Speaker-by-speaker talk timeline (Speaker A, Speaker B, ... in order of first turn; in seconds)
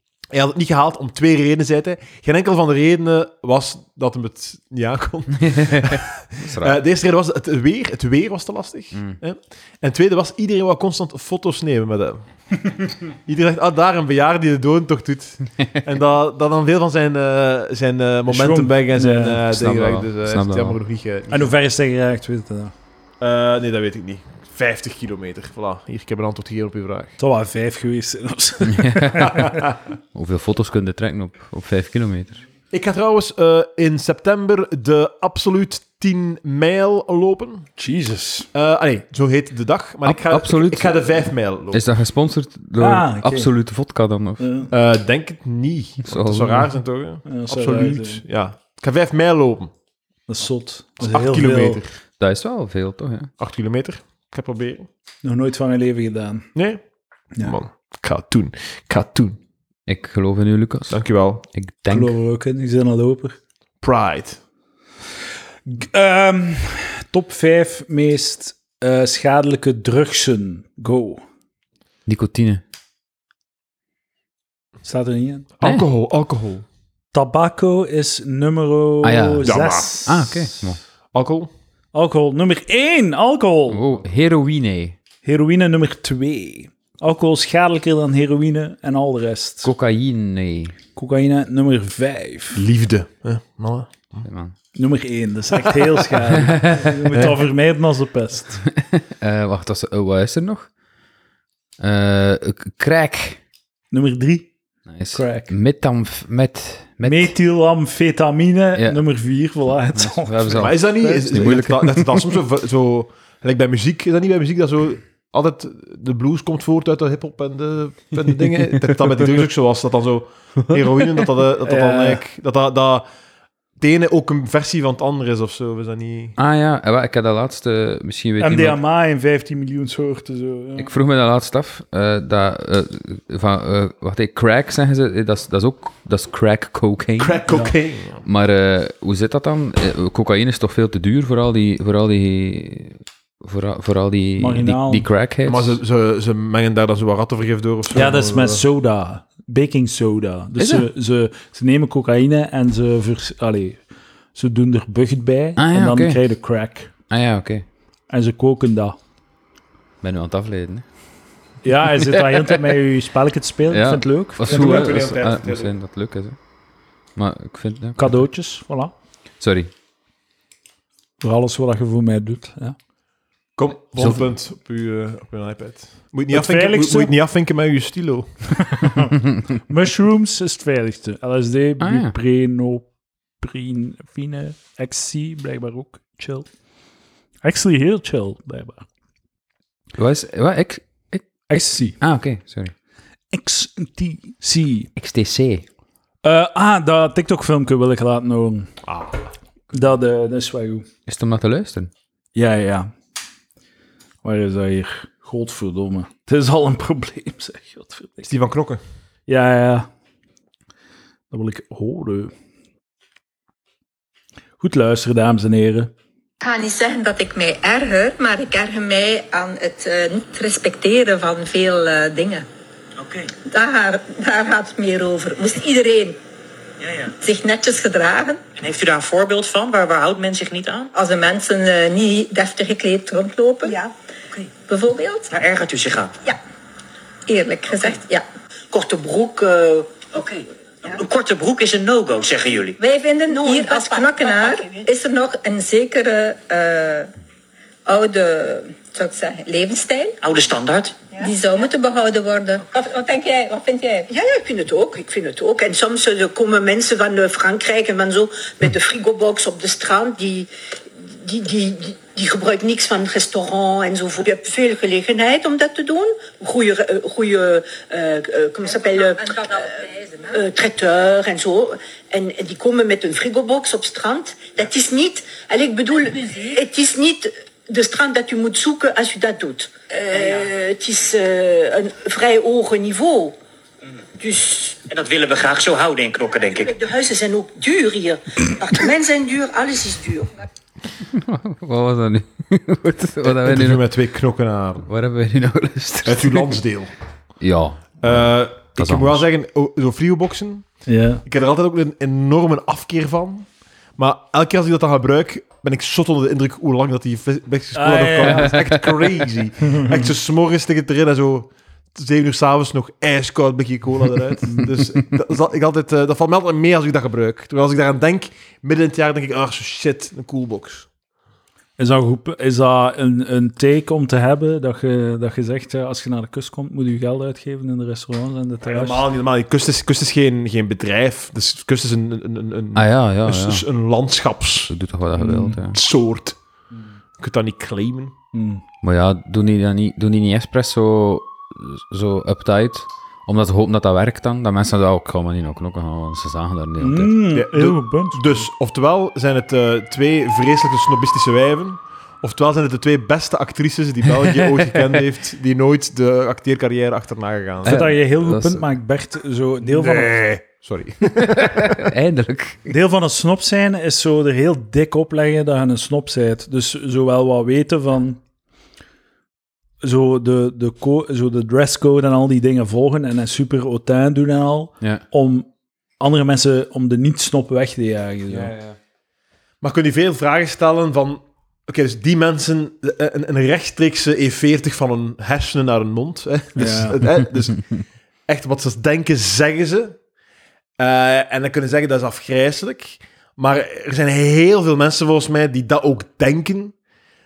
Speaker A: 0.3-12.6, 13.1-21.5, 23.2-27.1, 29.3-29.6, 32.7-37.7, 38.5-41.9, 44.7-49.7, 51.0-51.9, 53.4-54.9, 56.5-56.8, 57.4-59.4, 60.9-61.4, 63.8-64.4, 75.6-76.6, 79.4-80.1, 81.1-81.5, 92.5-93.9, 110.6-123.0, 123.8-126.4, 137.2-138.2, 145.4-148.6, 164.4-165.7, 173.6-178.6, 198.9-199.2, 208.2-208.8, 293.2-294.9, 296.1-296.9, 298.0-320.9, 328.6-334.7, 335.4-336.4, 337.2-338.1, 347.3-357.8, 359.6-361.9, 379.6-387.7, 388.3-390.0, 390.8-396.7
Speaker B: 5.4-6.8, 8.9-9.2, 19.5-20.8, 28.6-29.6, 30.1-32.4, 40.0-41.1, 41.7-44.5, 46.0-46.7, 52.2-53.3, 59.9-61.0, 61.5-62.1, 72.1-72.6, 79.0-79.5, 80.1-80.8, 83.7-85.0, 89.6-90.8, 94.2-94.5, 96.3-97.2, 98.7-100.7, 101.8-103.4, 104.9-107.3, 108.7-109.0, 109.9-112.2, 126.4-128.8, 130.8-137.4, 138.2-145.8, 150.6-150.9, 155.6-156.2, 157.1-157.7, 160.0-160.9, 163.7-166.4, 167.2-168.2, 169.4-169.7, 173.9-174.2, 181.8-182.1, 189.9-192.7, 194.9-195.7, 201.1-201.9, 291.0-293.9, 294.9-296.6, 297.4-298.2, 298.8-299.2, 308.5-308.7, 332.7-333.6, 334.7-335.8, 338.8-347.2, 354.2-354.8, 357.6-358.6, 361.2-362.7
Speaker C: 18.3-19.4, 21.3-22.7, 27.2-29.5, 37.8-38.5, 42.8-43.5, 44.4-44.7, 47.2-48.2, 50.3-51.8, 55.2-56.5, 61.9-63.4, 65.7-71.2, 74.8-75.5, 77.1-80.5, 81.9-83.8, 85.2-89.7, 91.0-92.6, 94.7-98.6, 103.9-104.5, 105.1-105.5, 107.0-111.7, 121.6-122.2, 128.4-130.9, 137.5-137.7, 144.4-145.1, 147.9-153.8, 154.3-156.9, 158.1-159.0, 161.6-164.9, 168.0-168.9, 171.2-172.8, 176.3-177.1, 178.7-179.1, 179.7-186.5, 187.4-188.9, 191.5-192.0, 193.3-194.9, 196.2-198.8, 199.7-200.8, 202.3-202.9, 204.2-208.3, 209.3-209.9, 211.3-212.3, 214.6-215.9, 300.9-301.2, 307.7-308.6, 309.7-310.1, 314.5-314.8, 321.8-329.1, 335.2-335.5, 338.3-338.6, 346.8-348.4, 357.6-360.1, 362.7-368.2, 369.8-375.5, 376.0-378.5, 386.6-387.0
Speaker D: 216.4-222.4, 223.4-226.2, 227.2-228.4, 230.9-233.8, 234.7-235.3, 237.3-238.2, 242.8-247.1, 247.9-250.2, 251.2-254.1
Speaker E: 223.0-223.3, 226.8-227.1, 228.6-230.9, 235.3-236.1, 240.3-242.8, 250.2-251.0, 284.9-286.7
Speaker F: 233.7-233.9, 238.7-240.1, 243.3-244.9, 254.1-260.5, 261.1-283.4, 284.2-284.8, 286.5-290.3